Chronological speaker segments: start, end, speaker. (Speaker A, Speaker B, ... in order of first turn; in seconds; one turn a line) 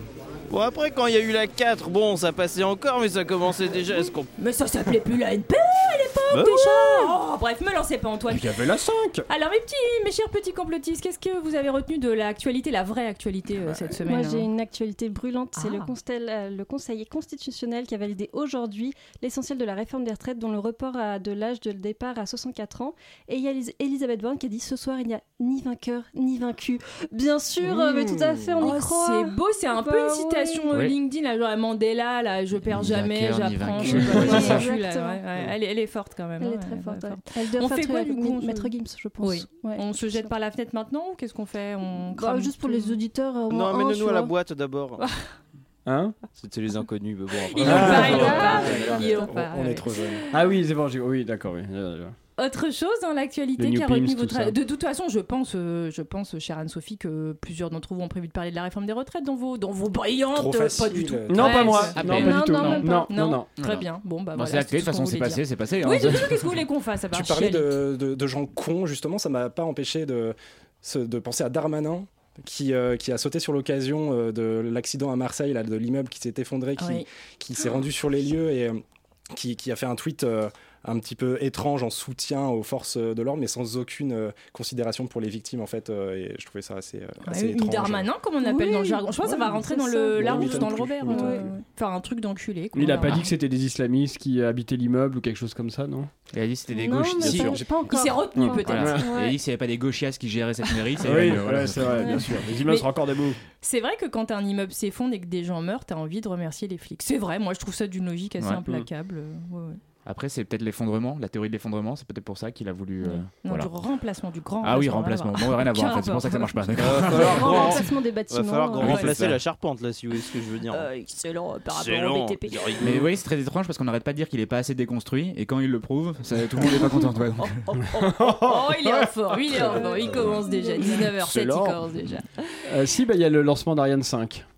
Speaker A: 0.5-4.3
Speaker B: 4.4-8.5
Speaker A: 6.3-7.1
Speaker C: 8.3-9.2
Speaker B: 9.3-14.5
Speaker D: 14.0-30.7
Speaker B: 15.6-15.9
Speaker C: 27.7-28.4
Speaker B: 28.6-43.0
Speaker E: 32.6-34.7
Speaker D: 33.9-35.2
Speaker D: 36.4-40.3
Speaker D: 42.0-44.3
Speaker A: 43.5-45.0
Speaker C: 45.9-46.1
Speaker A: 46.4-48.9
Speaker B: 47.5-50.3
Speaker C: 47.6-48.5
Speaker D: 48.0-49.3
Speaker F: 48.4-50.2
Speaker C: 50.3-52.1
Speaker B: 52.4-67.8
Speaker C: 53.6-54.5
Speaker F: 60.3-61.9
Speaker C: 61.3-63.5
Speaker D: 61.6-63.1
Speaker E: 61.9-62.8
Speaker E: 63.6-66.5
Speaker F: 67.1-78.8
Speaker B: 76.8-77.0
Speaker F: 79.3-88.1
Speaker B: 87.2-93.3
Speaker D: 88.4-91.5
Speaker F: 90.2-91.3
Speaker C: 92.7-96.1
Speaker E: 96.3-97.6
Speaker D: 96.7-99.3
Speaker B: 97.9-99.3
Speaker C: 98.4-99.1
Speaker E: 98.6-102.4
Speaker C: 101.0-103.4
Speaker B: 103.6-109.8
Speaker E: 110.0-113.7
Speaker B: 113.0-117.8
Speaker E: 114.6-117.6
Speaker A: 116.8-120.9
Speaker D: 117.0-119.1
Speaker E: 118.8-119.4
Speaker B: 120.7-122.8
Speaker A: 121.7-122.9
Speaker E: 122.8-127.6
Speaker B: 127.4-132.7
Speaker C: 127.9-130.0
Speaker D: 129.7-130.9
Speaker C: 130.8-131.7
Speaker C: 132.7-134.4